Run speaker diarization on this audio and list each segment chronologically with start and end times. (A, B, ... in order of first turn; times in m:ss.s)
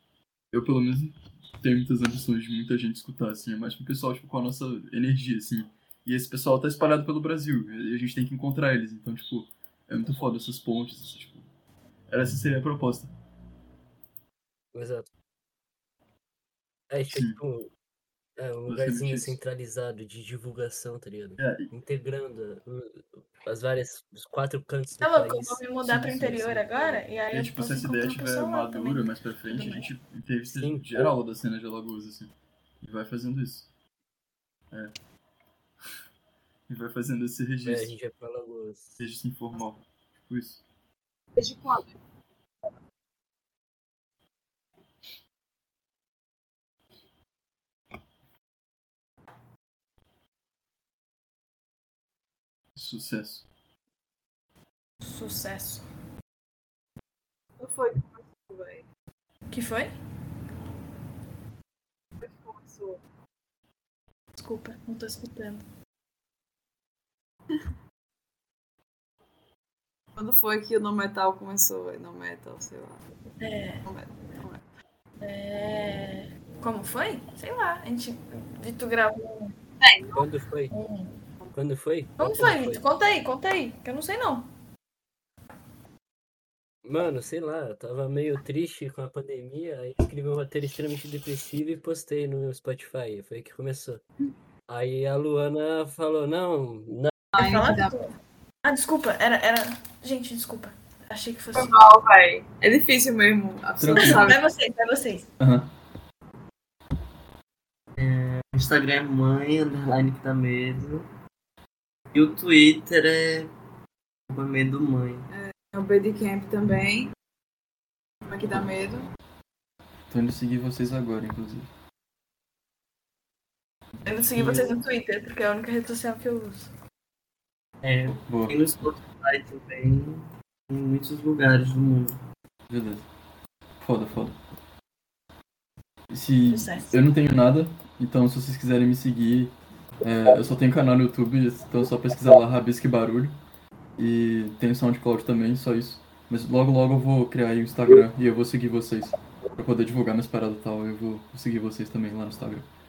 0:00.5-0:11.4 A
0:12.1-0:13.1 A
0:14.7-0:15.1 B
0:16.9-0:17.7 B
0:17.1-0:17.4 A
0:18.4-0:25.6 B
0:18.7-0:19.4 A
0:21.4-0:21.7 A
0:25.0-0:29.9 C
0:25.8-0:26.6 A
0:26.2-0:27.0 B
0:27.3-0:33.7 A
0:30.5-0:31.1 B
0:36.7-0:37.9 A
0:37.6-0:39.0 B
0:39.0-0:40.6 A
0:41.4-0:42.0 D
0:52.7-0:53.4 A
0:55.0-0:55.9 C
0:57.6-0:58.9 D
0:59.5-0:59.9 C
1:02.2-1:03.0 D
1:04.4-1:05.6 C
1:10.2-1:13.0 D
1:13.4-1:13.8 C
1:13.8-1:14.6 D
1:15.2-1:19.5 C
1:19.8-1:20.3 D
1:20.1-1:20.7 B
1:20.7-1:21.2 C
1:21.5-1:22.8 B
1:22.2-1:24.5 C
1:26.8-1:34.0 B
1:34.7-1:37.1 B
1:37.3-1:37.9 D
1:37.4-1:41.7 C
1:41.5-1:44.4 D
1:43.8-1:44.4 A
1:44.0-1:45.3 C
1:45.4-1:45.7 A
1:48.0-1:51.1 E
1:52.1-1:53.5 E
1:54.3-1:55.3 E
1:55.3-1:57.1 D
1:58.2-1:59.1 D
2:00.1-2:01.7 A
2:04.0-2:06.7 C
2:04.4-2:04.7 E
2:07.8-2:12.2 E
2:08.1-2:08.6 A
2:12.7-2:13.0 A
2:13.8-2:14.4 A
2:16.1-2:23.4 A
2:16.5-2:17.0 C
2:24.0-2:32.7 A